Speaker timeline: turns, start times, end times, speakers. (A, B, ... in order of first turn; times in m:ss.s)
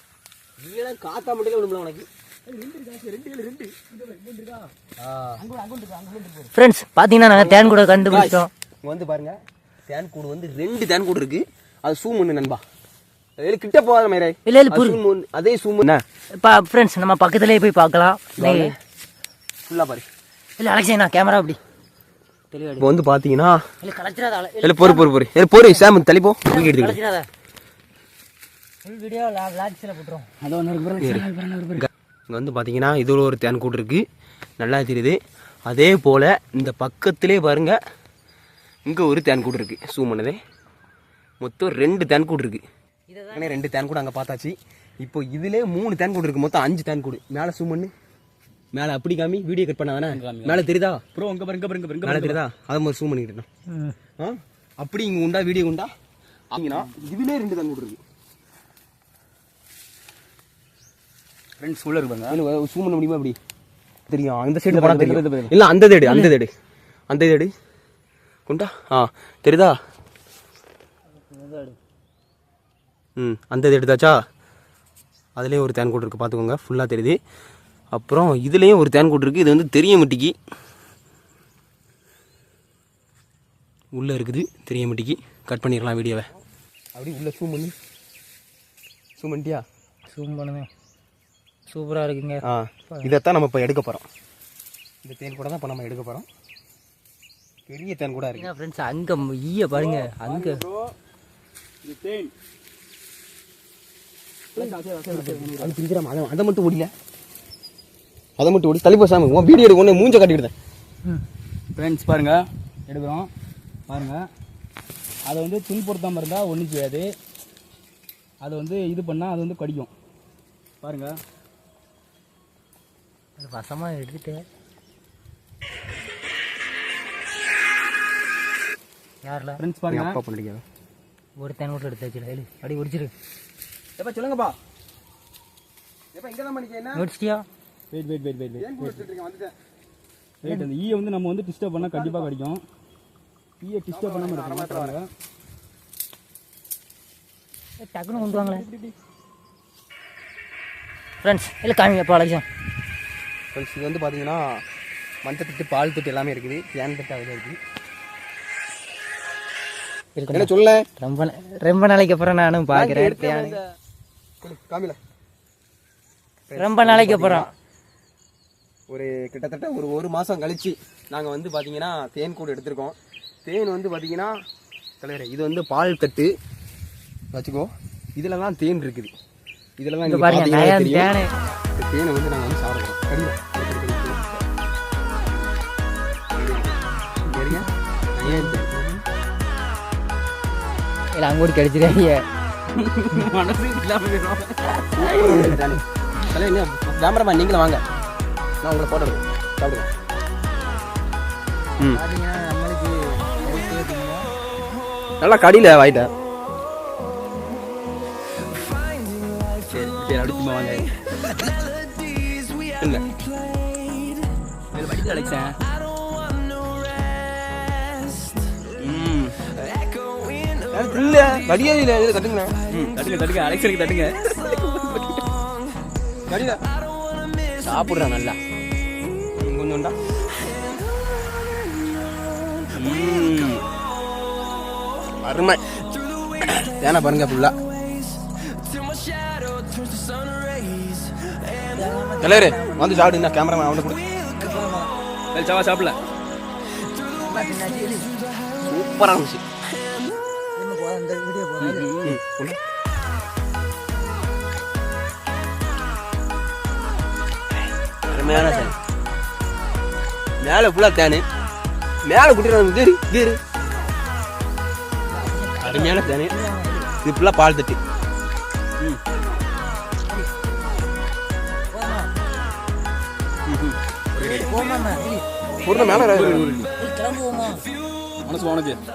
0:00.6-0:02.1 A
0:02.5-0:04.7 B
0:05.0-0:05.4 A
0:05.4-0:06.5 B
0:06.5-0:08.5 C
0:07.3-0:09.4 A
0:09.9-0:12.6 A
0:13.4-0:16.0 A
0:14.5-0:15.0 C
0:16.3-0:18.7 C
0:18.4-0:18.7 A
0:19.6-0:20.0 A
0:20.6-0:21.6 C
0:22.5-0:22.9 C
0:22.8-0:23.6 A
0:23.8-0:25.0 C
0:24.6-0:27.0 A
0:25.6-0:25.9 C
0:26.4-0:27.3 C
0:28.8-0:30.3 C
0:30.4-0:31.9 B
0:31.8-0:34.0 A
0:34.6-0:37.8 A
0:38.9-0:40.4 A
0:41.4-0:42.6 A
0:43.1-0:43.6 C
0:43.3-0:47.9 A
0:48.8-0:51.0 A
0:50.1-0:50.6 B
0:51.2-0:52.4 B
0:52.0-0:53.5 A
0:53.7-0:54.0 C
0:54.2-0:55.9 A
0:56.5-0:58.0 A
1:01.6-1:02.4 B
1:02.3-1:03.4 A
1:04.1-1:06.5 A
1:04.7-1:05.5 B
1:06.0-1:06.3 C
1:07.1-1:07.5 A
1:08.5-1:09.8 A
1:11.2-1:11.8 C
1:13.2-1:14.2 A
1:15.4-1:17.2 A
1:17.9-1:20.3 A
1:23.9-1:26.3 A
1:27.0-1:27.7 A
1:29.2-1:29.6 A
1:30.1-1:30.7 C
1:31.7-1:33.1 C
1:32.4-1:34.1 A
1:35.0-1:36.3 A
1:37.7-1:38.5 A
1:38.3-1:40.6 C
1:39.7-1:40.9 B
1:41.8-1:42.3 B
1:44.5-1:45.8 B
1:45.3-1:46.9 A
1:48.4-1:50.5 A
1:51.7-1:53.3 B
1:53.9-1:54.2 B
1:55.2-1:57.1 B
1:58.4-1:59.9 B
2:00.8-2:01.2 B
2:03.4-2:04.4 C
2:09.2-2:09.6 C
2:09.6-2:10.2 B
2:09.9-2:10.6 A
2:11.4-2:13.1 C
2:14.0-2:14.5 B
2:16.1-2:17.0 A
2:17.0-2:17.4 C
2:17.9-2:19.0 B
2:18.6-2:19.5 A
2:20.4-2:22.6 B
2:21.8-2:22.3 A
2:23.6-2:25.0 B
2:23.9-2:25.0 A
2:27.8-2:28.7 C
2:28.2-2:28.9 B
2:31.2-2:32.4 C
2:33.5-2:34.6 A
2:35.2-2:37.6 A
2:40.2-2:43.6 C
2:40.3-2:40.9 A
2:42.7-2:43.6 A
2:44.4-2:45.0 A
2:46.5-2:47.5 A
2:46.6-2:47.5 C
2:48.9-2:54.3 A
2:55.0-2:56.3 A
2:57.3-2:59.1 A
2:59.8-3:01.1 A
3:00.0-3:01.3 C
3:01.8-3:04.2 A
3:06.3-3:06.8 A
3:07.3-3:09.0 A
3:08.2-3:08.5 C
3:11.1-3:12.2 C
3:12.7-3:15.1 B
3:14.9-3:17.8 A
3:15.0-3:15.6 C
3:18.6-3:19.9 A
3:21.9-3:24.2 C
3:25.2-3:26.1 A
3:29.7-3:30.9 B
3:32.8-3:33.1 A
3:34.7-3:35.6 B
3:38.8-3:39.4 B
3:40.7-3:42.9 A
3:42.9-3:45.2 B
3:46.3-3:46.6 A
3:47.6-3:48.4 A
3:49.4-3:50.0 A
3:52.8-3:53.6 A
3:55.2-3:55.6 A
3:56.4-3:57.5 A
4:01.5-4:03.2 C
4:02.2-4:04.0 A
4:04.1-4:04.9 C
4:05.3-4:06.0 B
4:07.2-4:08.2 C
4:08.6-4:09.4 A
4:10.6-4:11.9 C
4:11.6-4:12.2 B
4:12.0-4:12.6 A
4:18.1-4:18.8 A
4:18.2-4:18.7 C
4:20.4-4:21.2 A
4:22.0-4:23.4 A
4:25.1-4:26.9 C
4:25.6-4:26.3 A
4:27.0-4:27.8 A
4:31.7-4:32.1 C
4:33.5-4:34.5 B
4:34.2-4:36.0 C
4:35.6-4:36.5 A
4:35.7-4:36.7 B
4:36.8-4:37.7 C
4:38.2-4:38.8 B